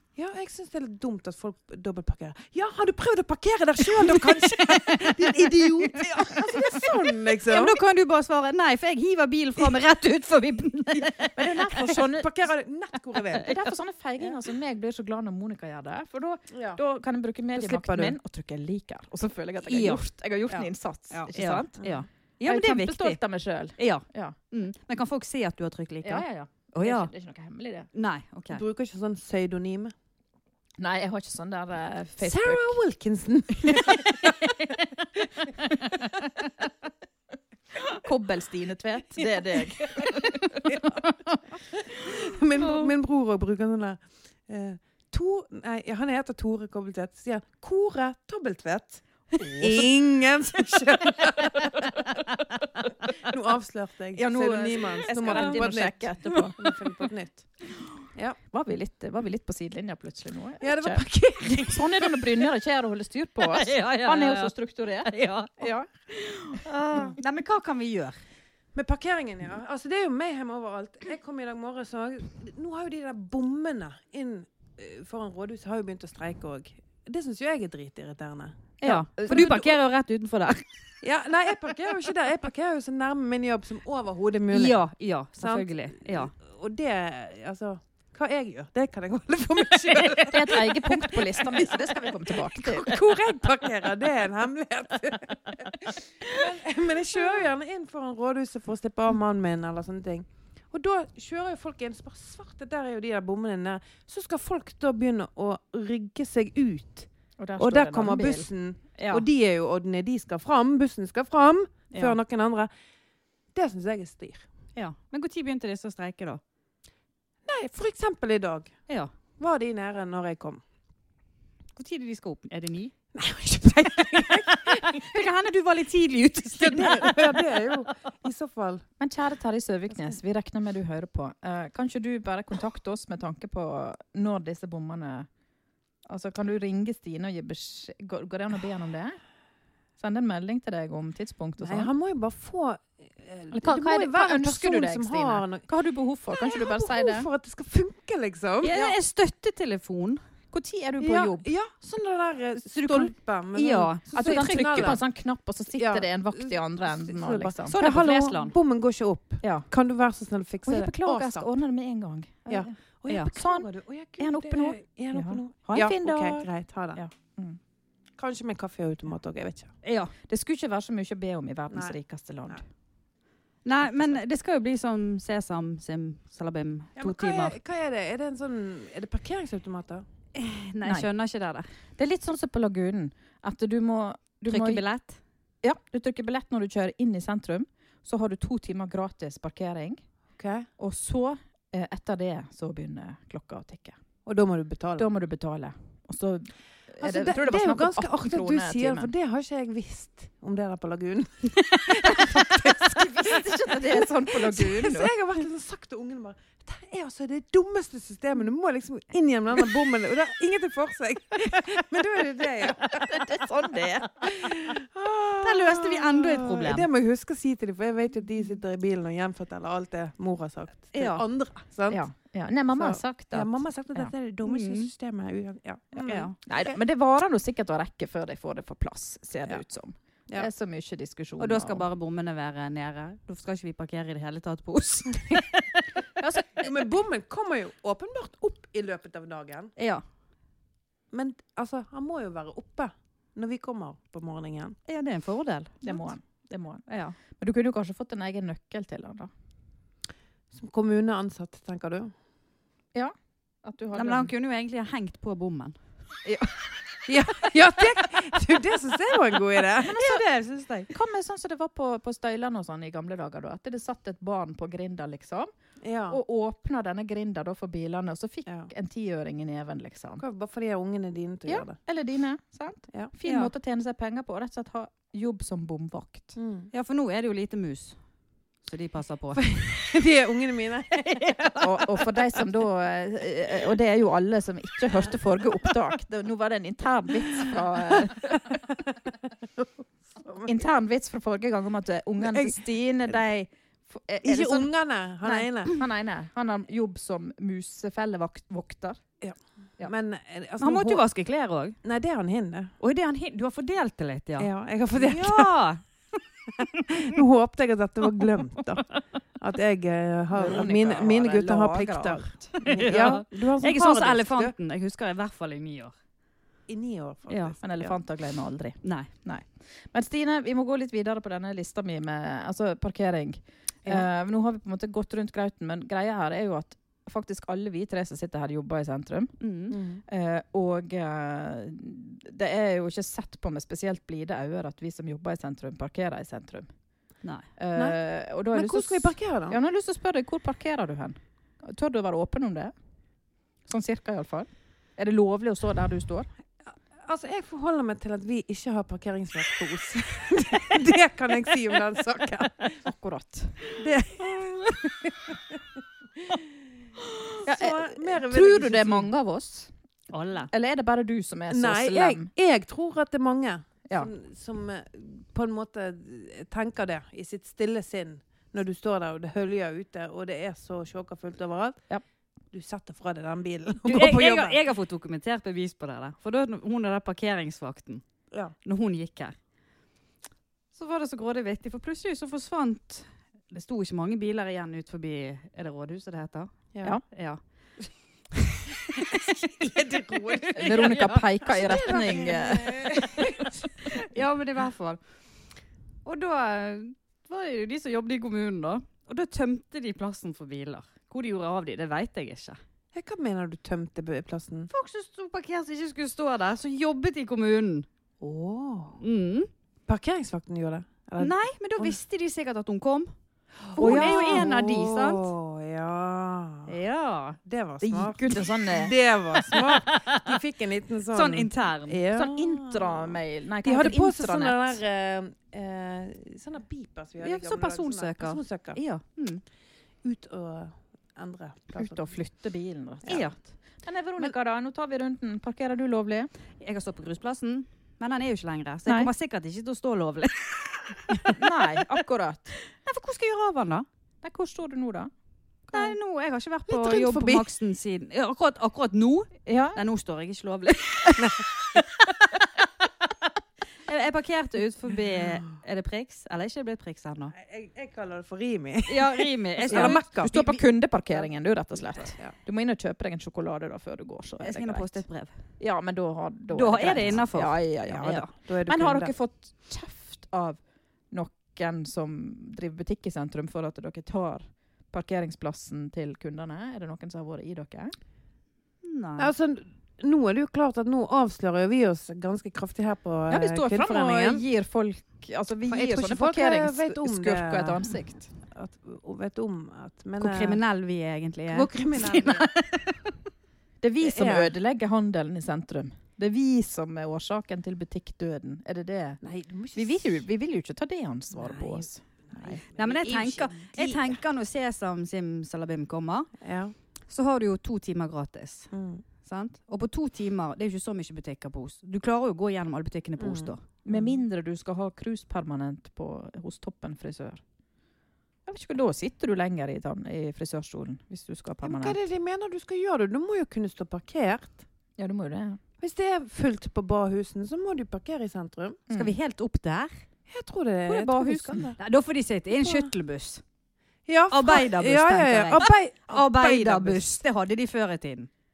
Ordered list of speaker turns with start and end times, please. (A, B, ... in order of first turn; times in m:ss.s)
0:00.1-0:07.8 A
0:04.9-0:06.9 B
0:07.4-0:11.3 B
0:11.3-0:12.4 C
0:11.7-0:13.6 A
0:13.3-0:21.7 C
0:16.5-0:16.8 A
0:17.5-0:18.2 A
0:19.6-0:20.0 B
0:21.1-0:23.2 B
0:21.8-0:22.0 A
0:22.4-0:24.4 C
0:23.8-0:27.1 B
0:26.0-0:27.9 C
0:27.9-0:28.6 B
0:28.5-0:29.9 A
0:30.8-0:32.8 C
0:32.2-0:34.6 A
0:33.7-0:34.3 C
0:37.9-0:41.0 C
0:39.8-0:40.9 A
0:41.7-0:57.4 A
0:49.4-0:49.8 C
0:54.2-0:56.6 C
0:55.3-0:55.6 B
0:58.5-1:05.9 C
1:00.6-1:02.2 A
1:03.4-1:08.2 B
1:08.7-1:18.7 A
1:18.8-1:19.5 C
1:18.8-1:20.6 B
1:19.3-1:19.7 A
1:21.0-1:24.8 A
1:24.5-1:26.3 B
1:25.4-1:52.7 A
1:30.2-1:33.0 C
1:47.4-1:49.2 C
1:53.5-1:54.4 A
1:54.8-1:56.4 B
1:57.4-1:58.7 A
1:59.4-2:00.6 A
2:01.8-2:02.9 B
2:03.1-2:05.2 A
2:04.1-2:07.4 B
2:06.5-2:08.8 A
2:09.0-2:15.3 C
2:16.0-2:19.2 C
2:20.0-2:21.9 C
2:21.6-2:25.7 A
2:23.5-2:27.3 C
2:26.3-2:28.9 A
2:28.6-2:30.2 B
2:30.5-2:31.4 C
2:31.0-2:35.0 A
2:32.7-2:35.0 B
2:34.1-2:37.8 C
2:35.8-2:41.5 A
2:37.7-2:38.5 B
2:39.4-2:39.7 C
2:40.6-2:42.7 C
2:42.5-2:47.0 A
2:43.3-2:43.7 C
2:44.2-2:47.6 C
2:48.2-2:49.7 A
2:49.8-2:50.1 B
2:50.2-2:52.6 C
2:51.7-2:52.0 A
2:53.6-2:57.6 B
2:57.0-3:00.0 A
3:00.3-3:01.7 B
3:00.8-3:01.1 C
3:02.0-3:04.8 C
3:04.5-3:05.2 B
3:05.6-3:10.0 C
3:10.4-3:10.7 A
3:10.8-3:14.0 C
3:14.2-3:15.1 A
3:15.0-3:19.1 C
3:17.0-3:33.4 A
3:22.1-3:25.1 C
3:33.0-3:34.5 C
3:34.2-3:42.0 A
3:35.4-3:36.9 B
3:40.9-3:41.2 B
3:41.9-3:44.1 C
3:42.7-3:46.7 A
3:44.4-3:44.9 B
3:46.0-3:46.3 B
3:46.4-3:51.8 C
3:51.4-3:55.6 B
3:56.2-3:56.7 C
3:56.6-3:59.7 A
3:59.8-4:00.0 B
4:01.1-4:04.8 A
4:04.9-4:06.0 B
4:05.8-4:09.3 C
4:06.9-4:07.2 B
4:10.5-4:12.1 A
4:12.9-4:14.3 C
4:13.9-4:15.8 B
4:16.2-4:17.1 C
4:17.1-4:20.0 A
4:19.8-4:20.2 C
4:19.9-4:20.9 B
4:20.9-4:25.5 C
4:25.8-4:26.2 A
4:26.1-4:30.2 C
4:30.2-4:31.8 A
4:31.4-4:36.4 C
4:33.2-4:33.5 B
4:36.4-4:36.7 A
4:36.7-4:38.0 B
4:38.6-4:39.6 B
4:39.4-4:41.8 A
4:41.6-4:48.6 C
4:48.0-4:50.5 A
4:50.4-4:54.7 C
4:54.2-4:55.8 A
4:55.2-4:59.0 C
4:59.2-5:01.0 A
5:00.6-5:01.8 B
5:01.8-5:02.7 A
5:02.8-5:05.8 B
5:04.4-5:05.5 A
5:06.6-5:14.5 A
5:10.3-5:12.6 C
5:12.6-5:15.9 B
5:16.7-5:17.9 A
5:17.3-5:17.6 B
5:17.6-5:29.4 C
5:18.8-5:19.1 B
5:29.4-5:29.8 B
5:29.7-5:30.0 A
5:30.1-5:36.7 C
5:37.6-5:42.7 C
5:37.7-5:38.0 A
5:38.5-5:39.6 A
5:43.6-5:46.3 C
5:46.9-5:52.8 A
5:52.8-5:53.6 C
5:53.8-5:55.6 A
5:56.2-5:56.5 A
5:57.4-5:59.7 C
5:57.4-5:59.1 A
6:00.1-6:00.5 B
6:00.5-6:02.3 C
6:01.5-6:11.8 A
6:12.5-6:14.6 A
6:13.8-6:18.0 B
6:18.6-6:19.4 B
6:20.7-6:28.0 B
6:26.7-6:27.0 A
6:29.2-6:34.0 A
6:30.6-6:32.9 C
6:30.6-6:31.9 B
6:33.9-6:35.0 B
6:36.0-6:42.6 B
6:42.9-6:44.7 A
6:44.7-6:47.9 B
6:48.2-6:49.0 A
6:49.0-6:49.5 B
6:49.9-6:52.0 A
6:51.2-6:53.1 B
6:53.6-6:56.8 A
6:53.7-6:55.3 B
6:53.8-6:54.5 C
6:56.7-6:57.4 B
6:57.4-7:08.8 A
6:57.8-6:58.9 C
6:59.4-7:00.4 B
7:01.1-7:02.0 B
7:02.1-7:04.8 C
7:07.2-7:09.4 B
7:10.0-7:12.0 A
7:11.8-7:16.3 C
7:13.0-7:13.4 B
7:16.6-7:21.3 B
7:21.3-7:22.6 C
7:22.8-7:23.8 B
7:24.2-7:25.1 C
7:25.7-7:26.0 C
7:25.7-7:32.4 B
7:26.7-7:27.5 A
7:29.4-7:29.8 C
7:33.9-7:37.3 B
7:37.3-7:40.5 A
7:38.8-7:40.5 B
7:39.7-7:45.0 C
7:41.9-7:42.3 A
7:44.4-7:45.3 B
7:45.6-7:57.9 C
7:46.5-7:48.3 B
7:46.8-7:47.1 A
7:47.9-7:49.1 A
7:58.8-7:59.3 B
7:59.2-8:04.4 A
8:03.3-8:08.3 C
8:05.7-8:10.6 A
8:10.2-8:12.9 B
8:11.5-8:12.5 A
8:13.8-8:19.2 C
8:14.0-8:14.5 A
8:19.2-8:20.2 A
8:19.7-8:22.6 C
8:21.3-8:24.2 A
8:22.7-8:26.3 B
8:26.4-8:26.7 A
8:27.1-8:28.7 B
8:28.7-8:29.0 A
8:29.2-8:33.6 B
8:33.2-8:34.2 A
8:33.8-8:37.4 C
8:38.4-8:42.0 C
8:41.6-8:44.6 A
8:45.0-8:45.6 C
8:45.8-8:48.8 A
8:48.9-8:49.2 C
8:48.9-8:49.9 B
8:50.3-8:51.8 A
8:50.9-8:51.7 C
8:51.8-8:53.4 B
8:52.5-8:52.9 A
8:54.0-8:57.1 A
8:54.3-8:58.3 B